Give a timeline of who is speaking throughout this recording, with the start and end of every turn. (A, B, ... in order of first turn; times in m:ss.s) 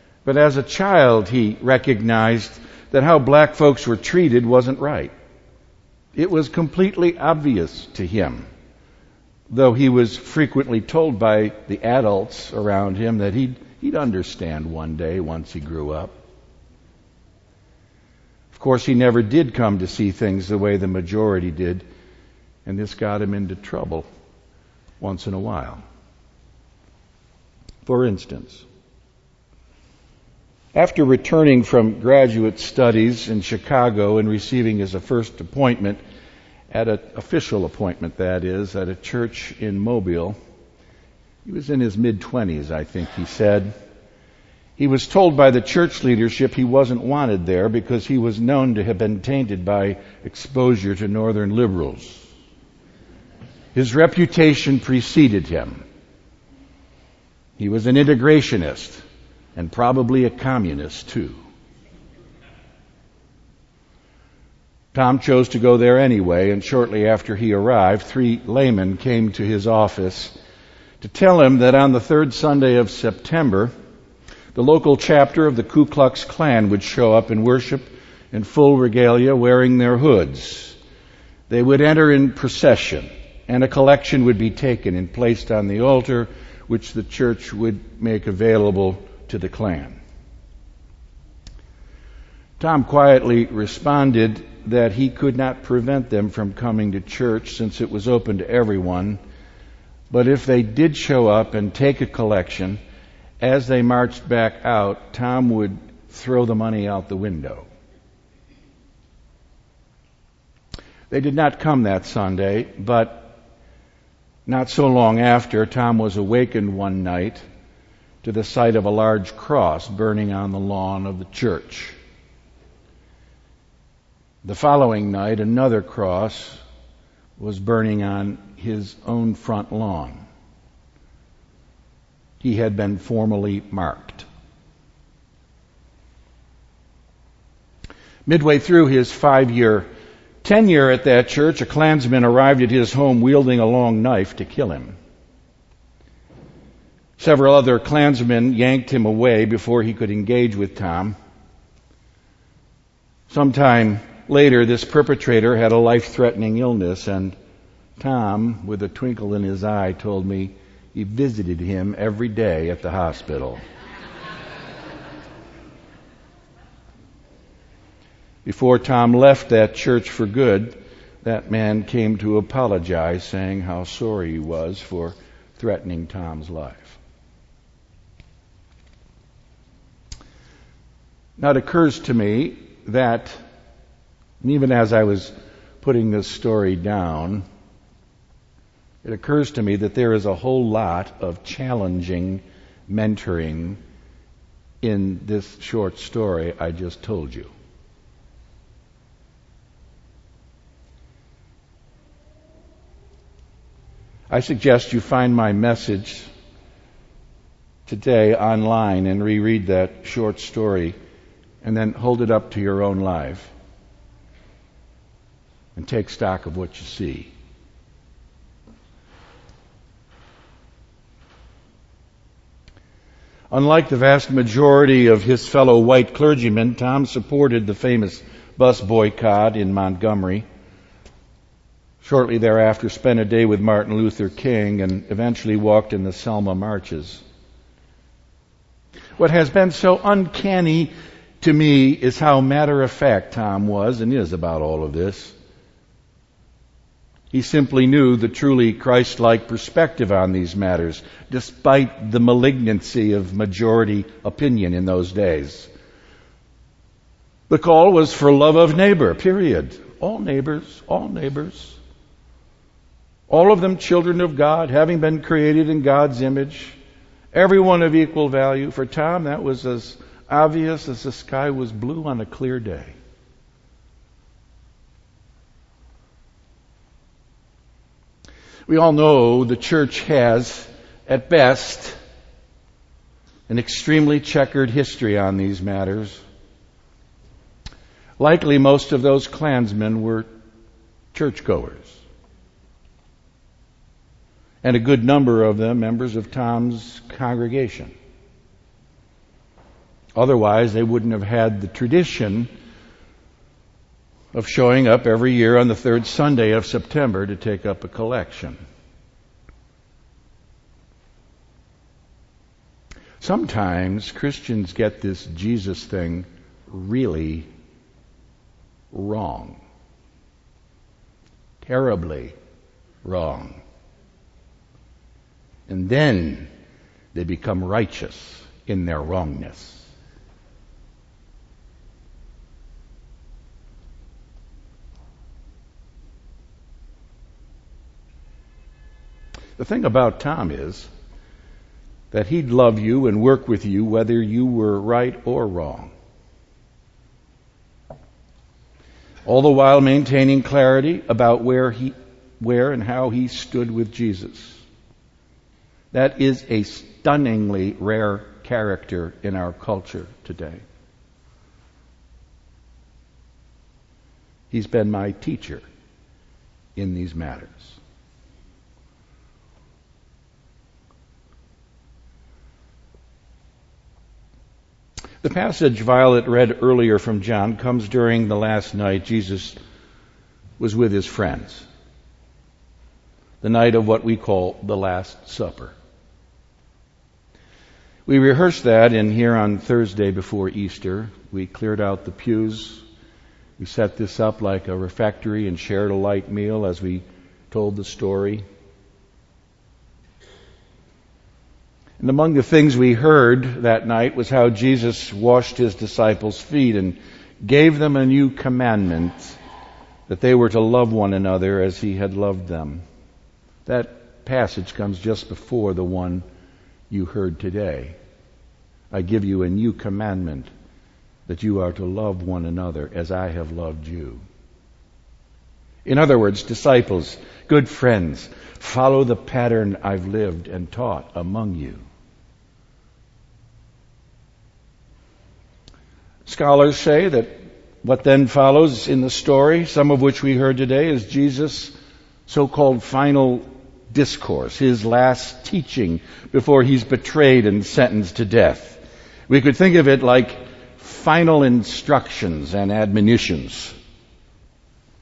0:00.2-0:05.1 A
0:06.2-0:08.5 A
0:09.5-0:16.1 A
0:18.5-0:21.8 A
0:22.7-0:24.1 A
0:25.0-0:25.8 A
0:27.8-0:28.7 A
0:30.8-0:36.0 A
0:36.7-0:40.4 A
0:41.4-0:43.7 A
0:44.8-0:52.3 A
0:53.8-0:55.8 A
0:57.6-0:59.0 A
0:59.6-1:01.4 A
1:04.9-1:10.4 A
1:11.0-1:13.7 A
1:14.6-1:20.8 A
1:21.5-1:30.0 A
1:32.6-1:39.2 A
1:40.1-1:42.8 A
1:43.4-1:47.7 A
1:51.1-1:53.4 A
1:54.5-1:57.4 A
1:58.2-2:02.0 A
2:04.4-2:06.6 A
2:07.4-2:10.2 A
2:12.4-2:14.3 A
2:18.3-2:19.9 A
2:20.4-2:25.0 A
2:27.2-2:31.2 A
2:33.3-2:37.4 A
2:38.0-2:43.6 A
2:48.4-2:57.0 A
3:01.4-3:03.4 A
3:04.4-3:07.4 A
3:09.0-3:13.8 A
3:14.8-3:17.5 A
3:24.3-3:26.3 A
3:27.9-3:31.0 A
3:31.6-3:33.5 A
3:35.8-3:37.3 A
3:43.5-3:50.5 A
3:52.0-3:57.2 A
3:59.2-4:05.4 A
4:07.3-4:15.7 A
4:17.5-4:21.8 A
4:23.3-4:26.8 A
4:27.3-4:33.0 A
4:38.7-4:42.0 A
4:43.5-4:46.2 A
4:48.2-4:50.3 A
4:51.1-4:52.0 A
4:54.6-4:57.9 A
5:00.2-5:02.5 A
5:04.3-5:08.6 A
5:13.2-5:17.5 A
5:18.9-5:19.6 A
5:21.6-5:22.4 A
5:23.0-5:23.6 A
5:25.7-5:26.5 A
5:27.1-5:29.9 A
5:39.6-5:40.9 A
5:42.1-5:45.9 A
5:49.3-5:54.6 A
5:55.9-6:00.6 A
6:04.5-6:05.6 A
6:06.8-6:07.8 A
6:15.2-6:19.6 A
6:20.6-6:21.7 A
6:23.4-6:25.8 A
6:28.1-6:32.8 A
6:33.6-6:38.4 A
6:42.0-6:49.4 A
6:50.1-6:52.8 A
6:53.7-6:56.2 A
6:56.9-6:58.0 A
6:58.9-7:00.5 A
7:01.3-7:04.2 A
7:05.8-7:11.8 A
7:16.3-7:21.7 A
7:22.3-7:33.7 A